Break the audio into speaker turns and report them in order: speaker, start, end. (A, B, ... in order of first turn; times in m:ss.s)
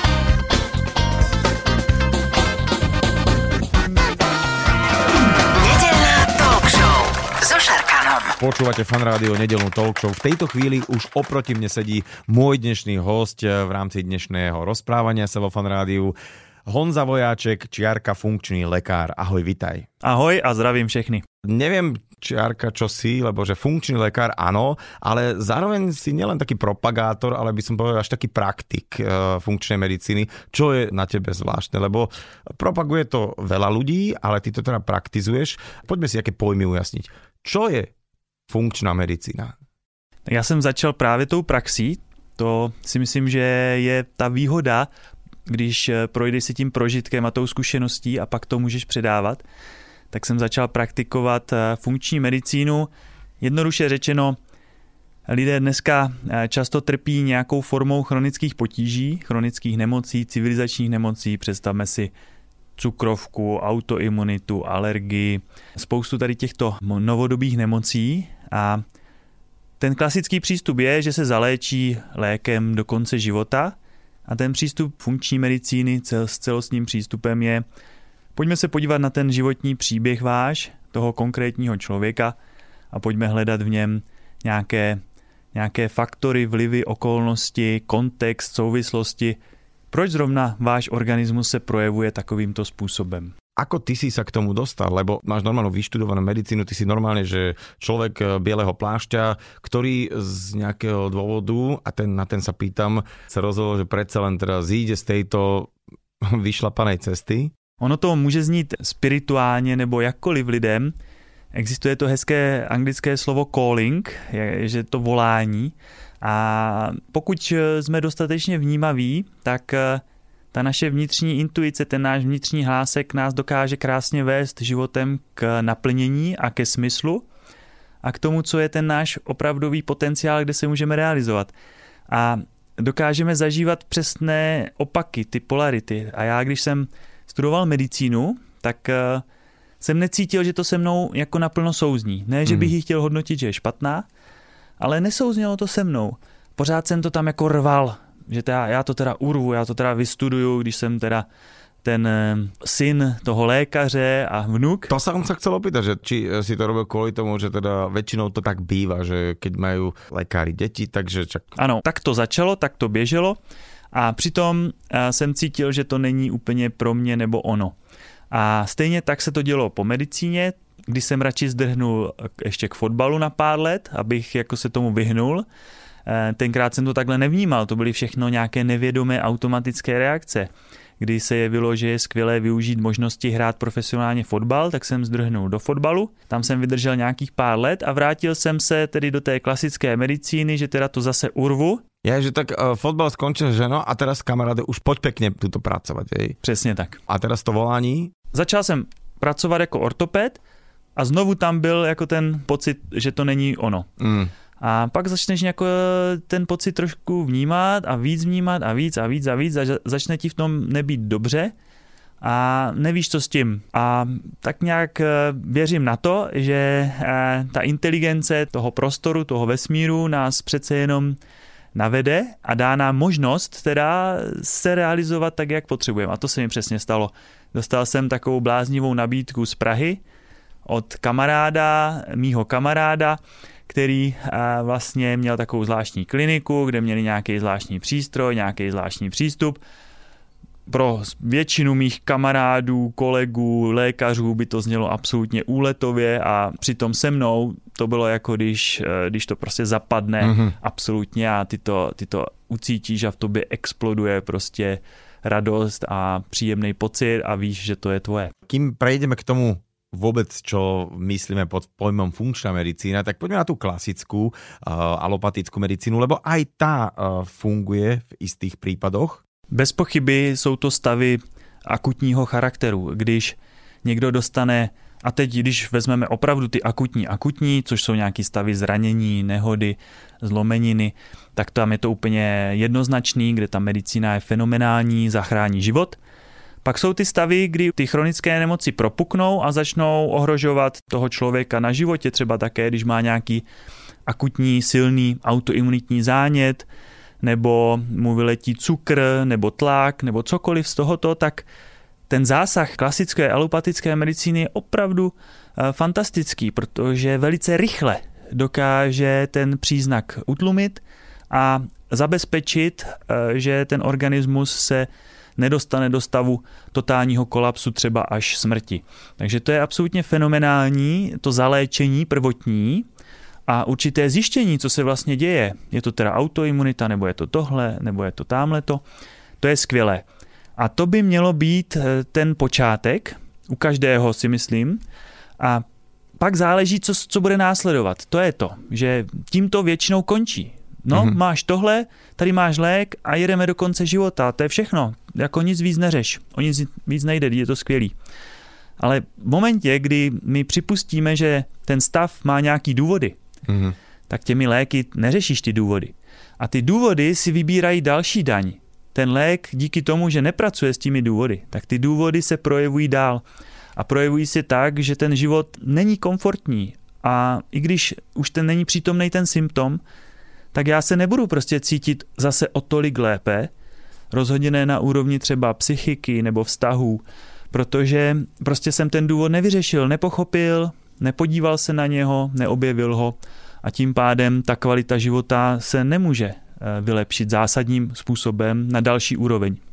0:05.5-0:08.4 A
0:08.4-0:16.1 B
0:16.6-0:19.9 B
0:20.0-0:21.2 C
0:21.4-0:37.9 B
0:38.5-0:39.5 B
0:40.3-0:44.9 C
0:45.5-0:49.4 C
0:50.1-0:52.9 C
0:53.4-0:54.4 C
0:55.3-1:02.1 C
1:02.8-1:08.8 C
1:09.8-1:17.6 C
1:18.3-1:22.4 C
1:22.9-1:25.0 C
1:25.5-1:29.4 C
1:29.9-1:33.3 C
1:33.6-1:47.5 B
1:47.8-1:50.9 C
1:51.5-2:07.2 C
2:08.0-2:11.5 C
2:12.1-2:19.2 C
2:19.8-2:24.0 C
2:22.4-2:22.7 B
2:24.8-2:31.2 C
2:31.8-2:34.9 C
2:34.9-2:41.5 B
2:41.6-2:43.4 C
2:43.9-2:47.7 C
2:48.3-2:55.4 C
2:56.0-3:11.8 C
3:12.0-3:16.4 B
3:16.4-3:17.0 C
3:17.1-3:18.1 B
3:18.3-3:20.4 C
3:21.0-3:23.9 C
3:24.0-3:24.3 B
3:24.6-3:31.5 C
3:32.2-3:41.2 C
3:41.7-3:50.0 C
3:50.6-3:59.6 C
4:00.7-4:18.3 C
4:10.2-4:10.5 B
4:18.5-4:29.2 B
4:29.5-4:46.0 C
4:46.6-4:53.4 C
4:54.1-4:56.7 C
4:57.2-5:01.5 C
5:02.1-5:22.9 C
5:23.5-5:28.8 C
5:29.4-5:30.0 C
5:30.6-5:34.8 C
5:35.4-5:35.6 C
5:36.2-5:47.9 C
5:40.9-5:41.2 B
5:48.8-5:53.2 C
5:53.5-5:53.7 B
5:54.1-6:03.2 C
6:03.8-6:09.8 C
6:10.5-6:13.5 C
6:14.1-6:29.6 C